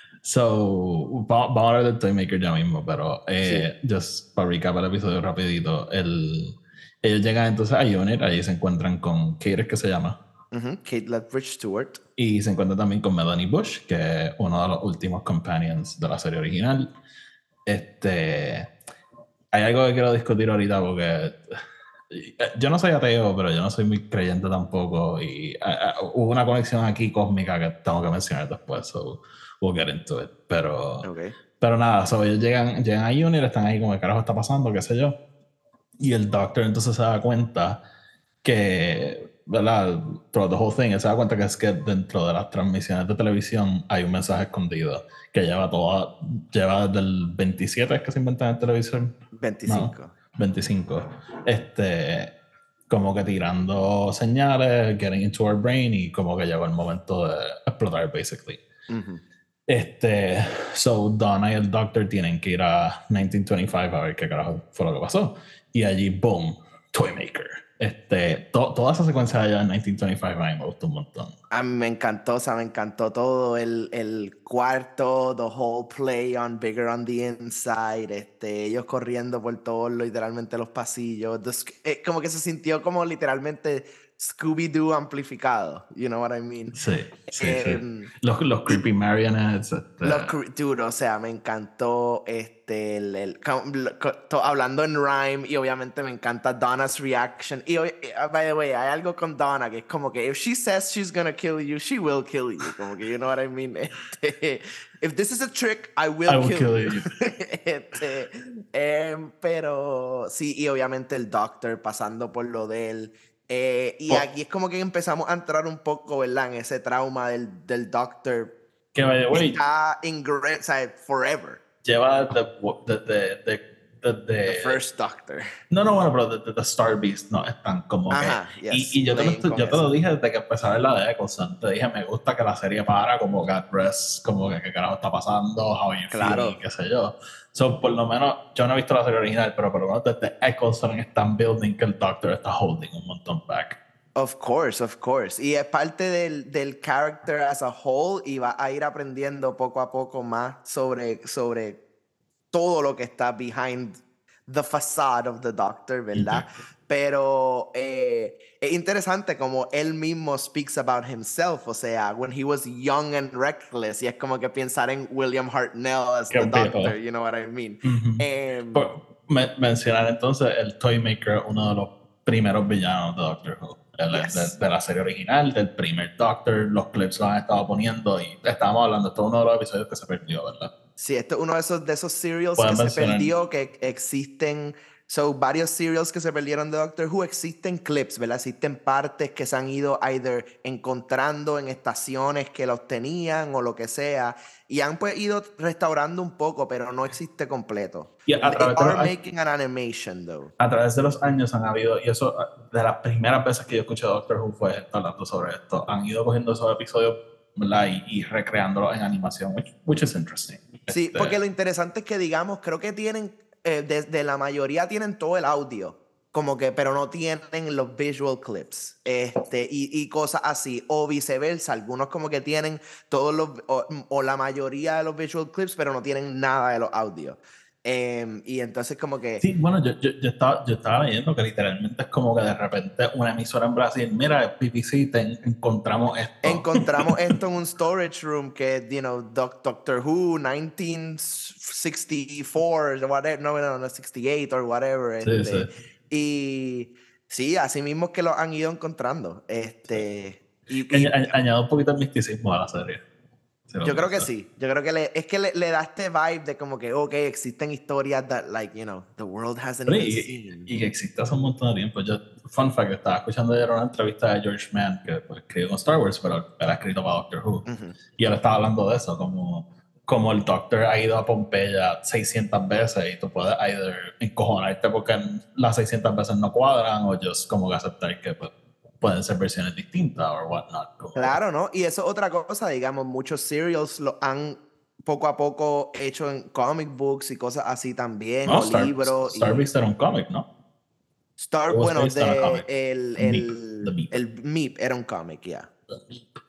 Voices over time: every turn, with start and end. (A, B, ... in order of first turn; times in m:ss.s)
0:00.2-0:10.2 A
0:03.4-0:03.7 B
0:10.5-0:12.0 B
0:12.2-0:16.9 A
0:17.7-0:18.7 A
0:19.5-0:21.6 A
0:22.1-0:31.1 A
0:31.0-0:31.4 B
0:31.6-0:35.2 A
0:36.0-0:37.8 A
0:38.4-0:49.1 A
0:49.3-0:50.1 B
0:49.7-0:52.3 A
0:52.9-0:58.6 A
0:58.9-0:59.2 B
0:59.7-1:11.3 A
1:11.5-1:26.7 B
1:26.7-1:30.3 A
1:27.3-1:28.1 B
1:30.0-1:58.5 B
1:46.3-1:47.1 A
1:58.9-1:59.6 A
1:59.3-2:01.6 B
2:01.8-2:04.8 A
2:04.4-2:05.5 B
2:05.7-2:23.8 A
2:08.1-2:09.9 B
2:16.1-2:16.6 B
2:24.2-2:31.8 B
2:32.5-2:48.8 B
2:36.2-2:36.4 A
2:46.3-2:47.0 A
2:47.8-3:00.7 A
2:54.1-2:54.6 B
3:01.0-3:20.5 B
3:02.6-3:03.3 A
3:18.3-3:19.1 A
3:20.6-3:31.4 A
3:30.9-3:49.4 B
3:49.4-3:56.9 A
3:56.4-4:11.4 B
4:05.2-4:05.7 A
4:10.9-4:13.0 A
4:13.7-4:14.3 A
4:13.8-4:20.7 B
4:19.9-4:41.4 A
4:27.7-4:28.0 B
4:41.2-4:49.6 B
4:48.5-4:50.5 A
4:51.4-4:55.7 B
4:51.7-4:52.7 A
4:53.2-4:54.2 A
4:55.9-4:56.3 A